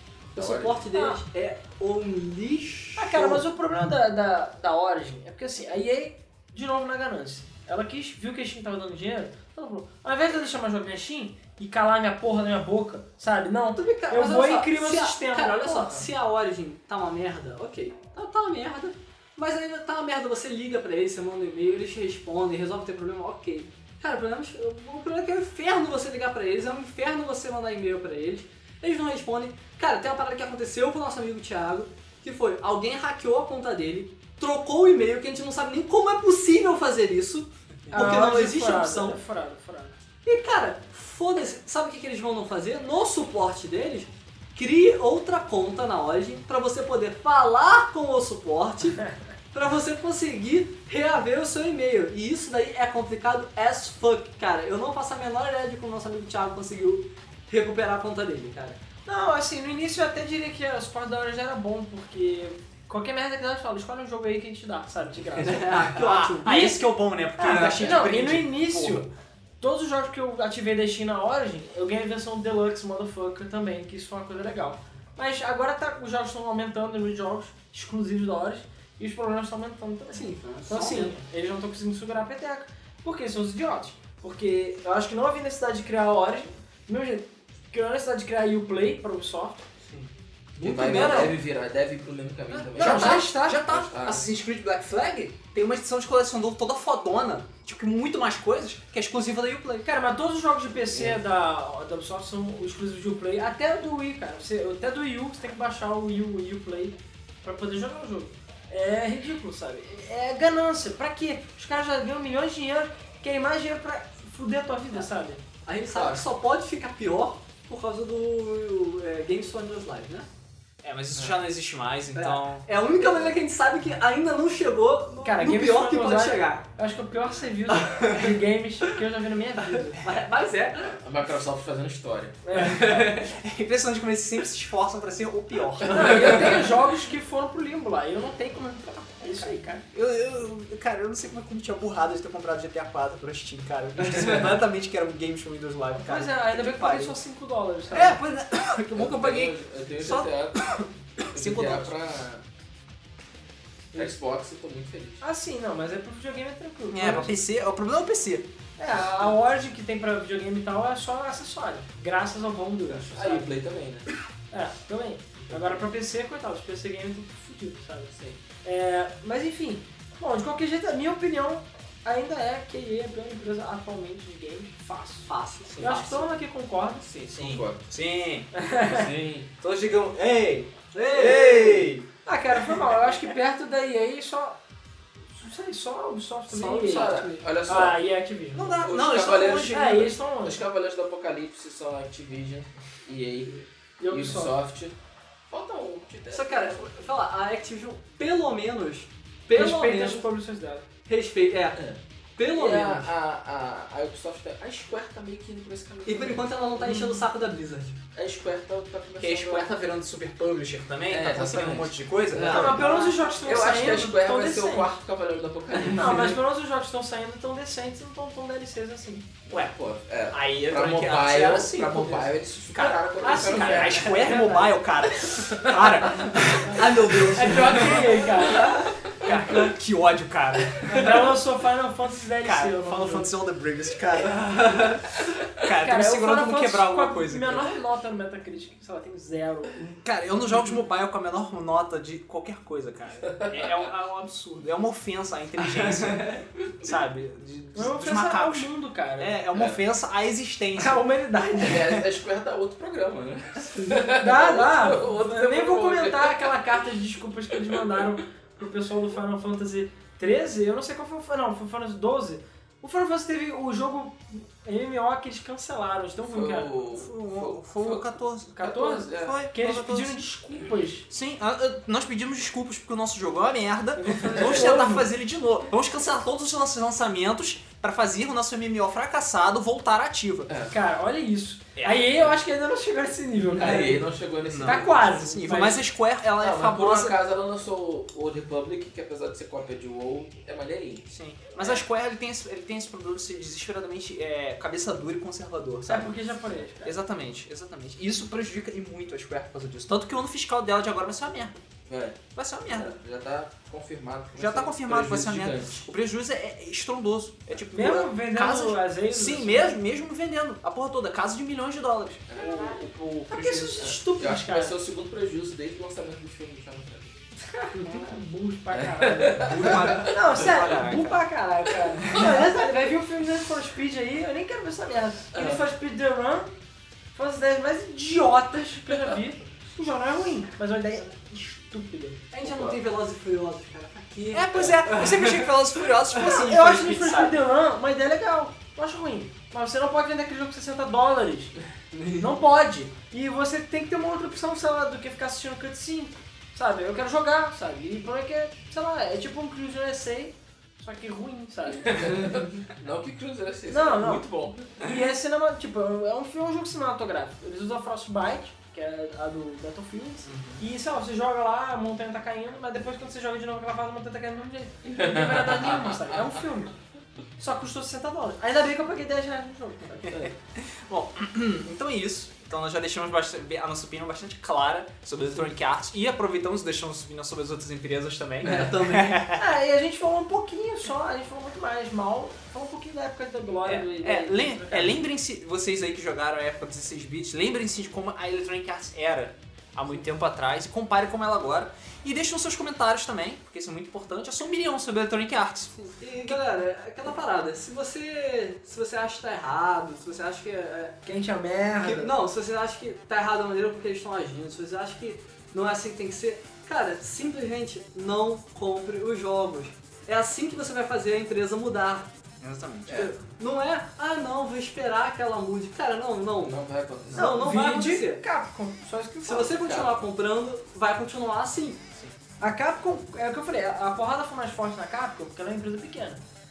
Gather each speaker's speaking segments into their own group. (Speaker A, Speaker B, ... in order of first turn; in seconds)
Speaker A: 0.3-0.9, 90.6-94.2, 100.9-101.2, 115.9-116.2, 130.8-132.4, 148.9-150.8, 151.3-152.4, 153.9-155.2, 162.9-164.1, 165.5-165.8, 177.1-177.8, 178.9-179.5, 181.3-181.9, 186.5-188.0, 188.8-194.9, 195.5-196.9, 202.5-207.0, 208.2-209.9, 211.1-216.4, 219.5-224.2, 225.3-226.1, 249.5-249.8, 251.6-256.6, 266.2-269.4, 280.5-280.8, 283.4-285.4, 286.4-291.1, 291.6-291.9, 301.9-305.9, 312.3-312.8, 313.5-317.2, 318.7-320.5, 325.3-325.6, 332.4-332.8, 351.9-354.8, 364.9-366.4, 370.1-370.3, 412.9-413.1, 416.4-417.3, 419.5-420.0
Speaker B: 0.3-3.4, 13.8-39.2, 40.2-58.8, 65.4-66.8, 67.4-68.0, 80.1-81.2, 90.6-91.4, 115.7-120.3, 122.2-126.7, 127.7-128.4, 129.7-131.0, 175.3-176.4, 180.9-181.9, 186.5-187.5, 196.3-200.3, 201.1-201.8, 202.4-203.1, 206.1-208.0, 212.4-213.2, 216.0-216.3, 226.5-228.7, 234.2-235.0, 245.8-246.4, 274.4-274.6, 332.3-335.6, 341.9-342.4, 378.4-379.3, 395.9-401.1, 401.8-412.1, 412.9-418.2, 419.2-421.8
Speaker C: 0.9-1.2, 3.0-16.1, 37.9-40.0, 59.1-65.9, 66.5-66.8, 67.4-69.1, 69.6-89.7, 90.9-91.3, 92.8-93.6, 99.8-115.4, 125.2-130.1, 132.4-133.2, 135.9-139.9, 146.0-148.2, 155.2-157.3, 158.8-163.5, 164.5-177.6, 178.5-179.1, 182.3-184.6, 185.4-188.9, 189.7-190.6, 194.0-194.5, 199.5-200.9, 212.5-215.0, 215.9-219.3, 223.2-224.8, 226.6-229.4, 230.9-233.3, 235.7-240.0, 247.8-249.3, 250.8-252.1, 254.2-266.7, 268.6-271.1, 274.0-275.1, 280.7-284.1, 284.6-285.8, 295.9-297.0, 307.7-309.8, 313.3-314.7, 317.6-326.5, 327.1-332.3, 336.1-341.6, 342.2-352.3, 353.7-366.7, 367.4-370.2, 379.4-384.9, 401.1-402.1, 417.2-419.6, 422.4-426.2
Speaker D: 65.9-69.1, 92.5-99.9, 120.8-122.7, 132.6-136.4, 139.9-147.2, 147.9-152.0, 156.9-158.5, 177.3-178.5, 179.6-182.1, 188.6-190.2, 209.2-212.9, 219.5-219.7, 220.3-227.3, 229.2-231.2, 232.4-234.5, 235.5-237.7, 240.0-251.1, 266.9-270.2, 271.1-280.5, 281.8-282.3, 284.5-287.2, 291.1-296.1, 296.8-301.6, 302.4-303.0, 304.4-313.9, 319.4-321.2, 334.3-337.4, 360.3-360.6, 370.6-379.4, 383.6-396.4, 412.4-413.1